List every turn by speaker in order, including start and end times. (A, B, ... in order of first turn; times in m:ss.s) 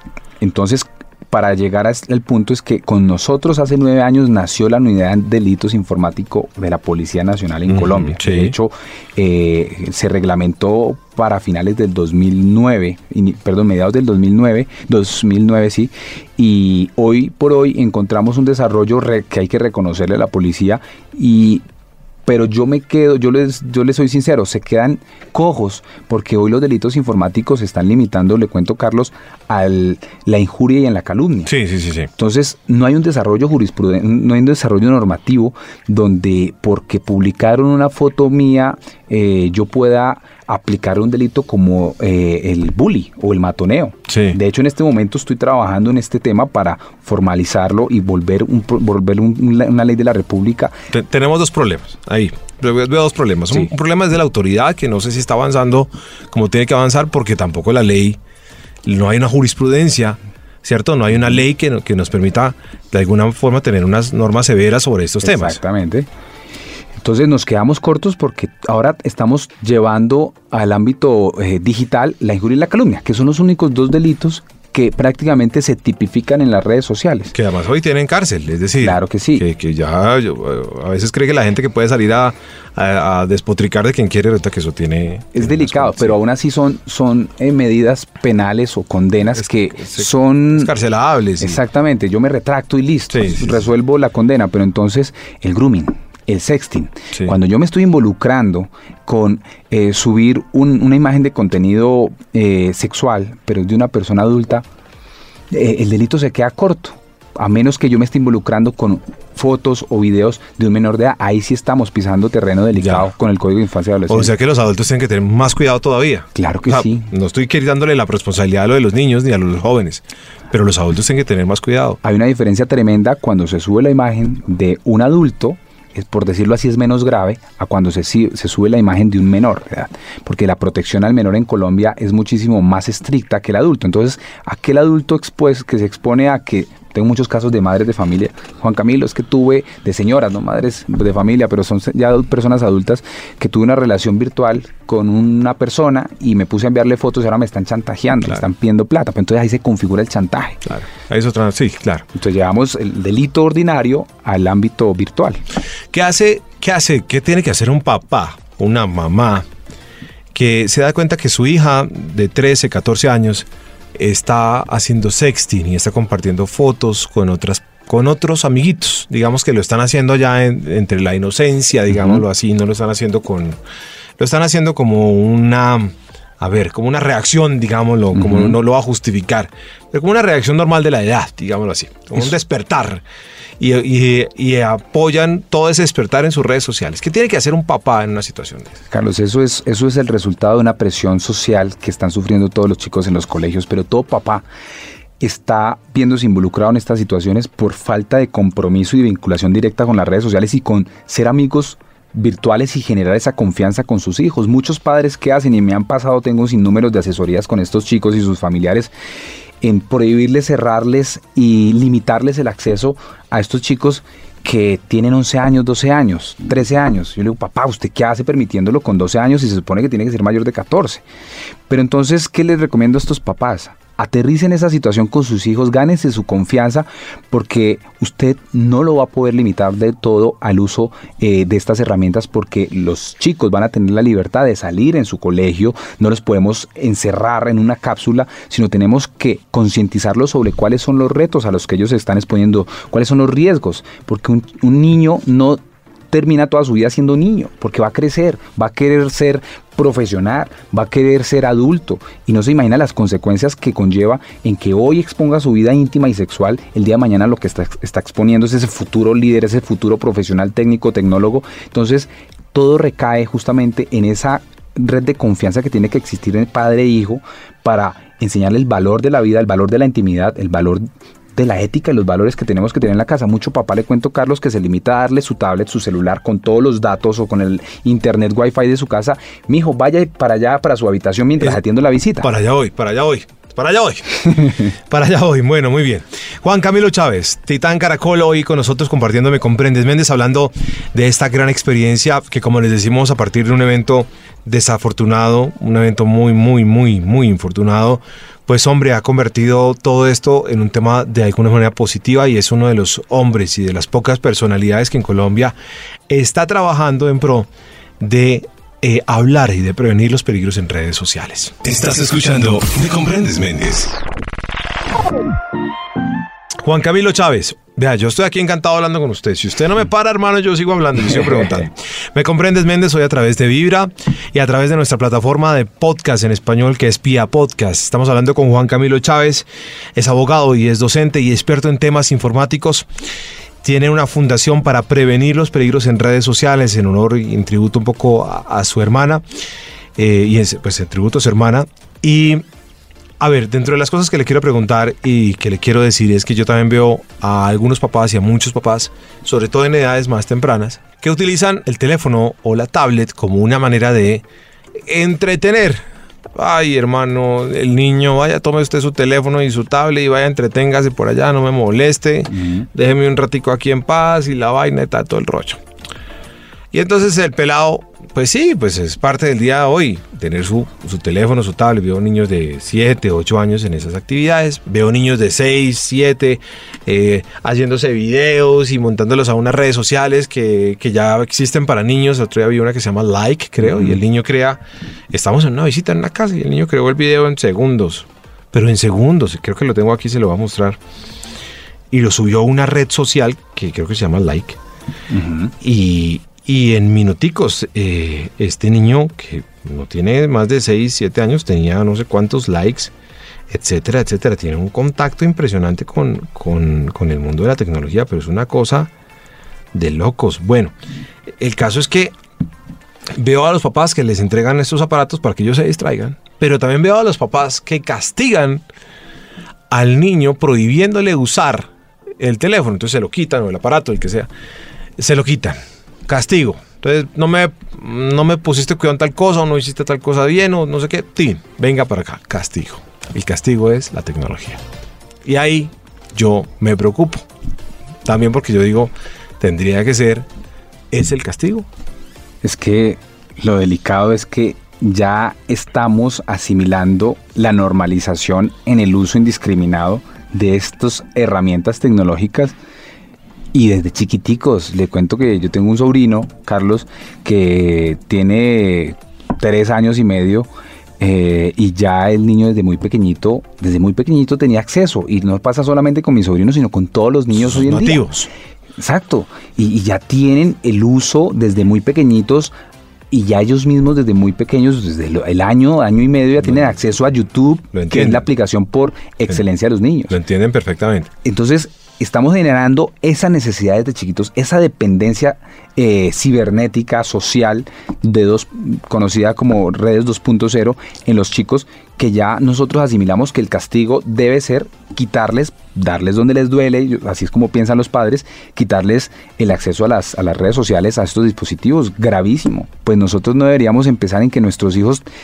0:00.4-0:21.6 A
0:07.7-0:08.5 B
0:22.3-0:31.5 A
0:31.5-0:32.1 B
0:32.2-0:50.8 A
0:44.1-0:44.4 B
0:50.9-0:58.2 B
0:58.8-1:05.6 B
1:05.2-1:06.1 A
1:07.0-1:17.3 A
1:17.3-1:26.2 B
1:18.8-1:19.5 A
1:25.3-1:30.7 A
1:29.4-1:31.6 B
1:31.4-1:44.6 A
1:33.1-1:33.5 B
1:45.5-1:54.3 A
1:52.8-1:53.1 B
1:54.1-2:02.0 B
1:56.4-1:57.1 A
2:02.0-2:30.6 A
2:30.7-2:32.1 B
2:32.1-2:35.4 A
2:35.9-2:39.5 B
2:40.3-2:53.6 B
2:54.2-3:03.0 B
2:58.1-2:58.6 A
3:03.6-3:08.8 B
3:08.9-3:14.5 A
3:15.2-3:28.9 A
3:29.6-3:41.0 A
3:41.7-4:05.6 A
4:06.1-4:30.8 A
4:31.4-4:42.3 A
4:42.2-5:05.6 B
5:06.1-5:07.5 B
5:08.0-5:11.6 B
5:11.6-5:14.0 C
5:16.6-5:32.9 B
5:33.6-5:39.2 B
5:40.0-5:42.4 B
5:43.2-5:54.2 B
5:54.8-5:55.8 B
5:56.4-6:05.6 B
6:02.3-6:02.7 A
6:06.7-6:30.8 B
6:31.9-6:34.6 B
6:35.1-6:35.5 A
6:35.6-6:42.9 B
6:43.5-6:48.9 B
6:49.7-6:50.7 B
6:51.4-6:52.1 B
6:53.2-6:58.6 B
6:59.7-7:04.3 B
7:05.0-7:14.6 B
7:15.2-7:17.2 B
7:18.0-7:20.3 B
7:20.9-7:21.7 B
7:22.4-7:32.6 A
7:33.5-7:40.5 A
7:41.0-7:48.0 A
7:47.4-7:48.3 B
7:48.8-7:52.5 A
7:53.1-8:00.2 A
7:57.7-7:58.3 B
8:00.1-8:01.1 B
8:01.2-8:25.0 A